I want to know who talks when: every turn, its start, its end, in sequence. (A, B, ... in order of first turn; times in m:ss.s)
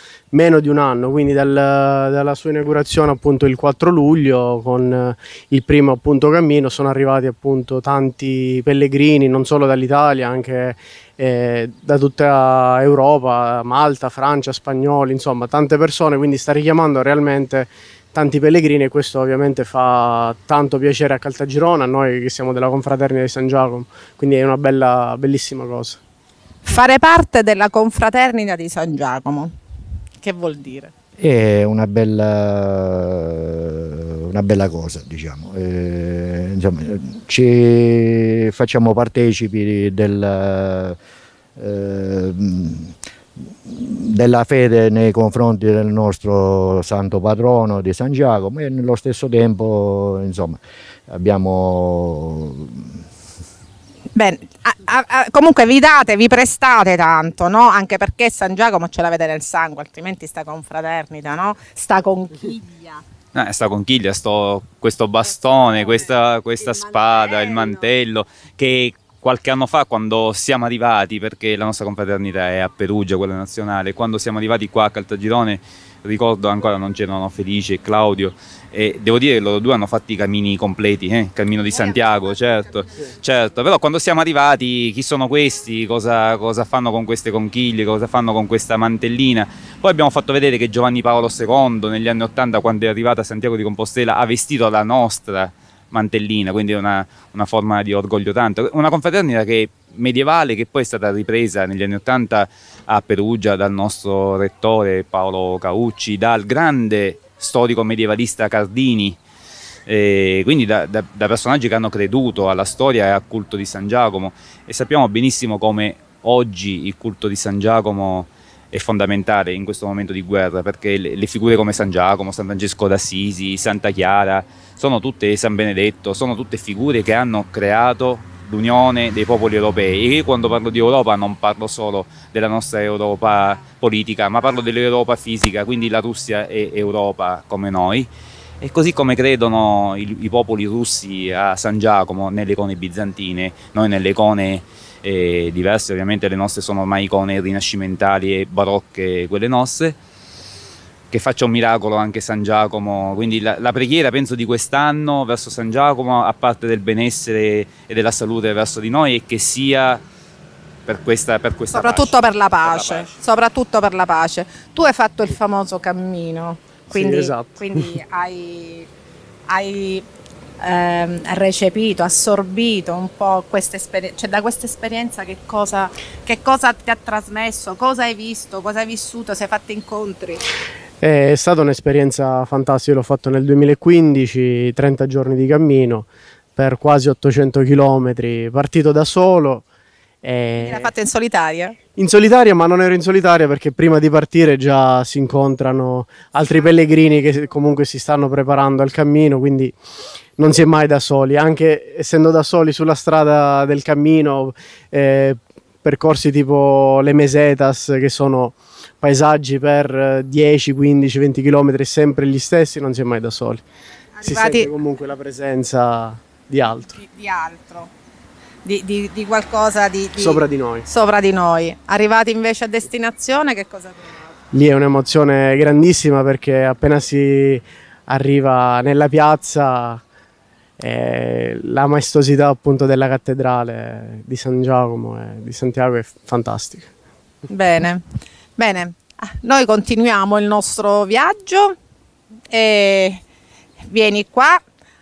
0:00.3-0:26.0 A
0:26.6-0:29.5 B
0:30.2-0:30.9 B
0:31.2-0:41.0 C
0:41.6-0:43.0 C
0:43.6-0:53.1 C
0:54.2-1:03.0 B
1:03.3-1:49.2 D
1:49.9-2:18.1 D
2:18.6-2:30.0 D
2:31.1-2:40.0 D
2:40.9-2:43.1 D
2:41.7-2:48.9 B
2:46.9-2:47.9 A
2:49.5-2:50.1 B
2:50.6-3:00.4 B
3:01.0-3:09.7 A
3:10.2-3:10.9 A
3:10.6-3:11.8 B
3:12.0-3:19.8 A
3:20.4-3:33.6 A
3:34.2-3:34.7 B
3:34.2-3:36.9 A
3:36.9-3:37.9 B
3:38.6-3:44.4 B
3:40.2-3:40.9 A
3:44.5-3:50.0 A
3:50.8-3:56.9 A
3:57.5-3:58.0 B
3:58.6-4:01.8 B
4:02.5-4:03.2 B
4:03.9-4:04.6 B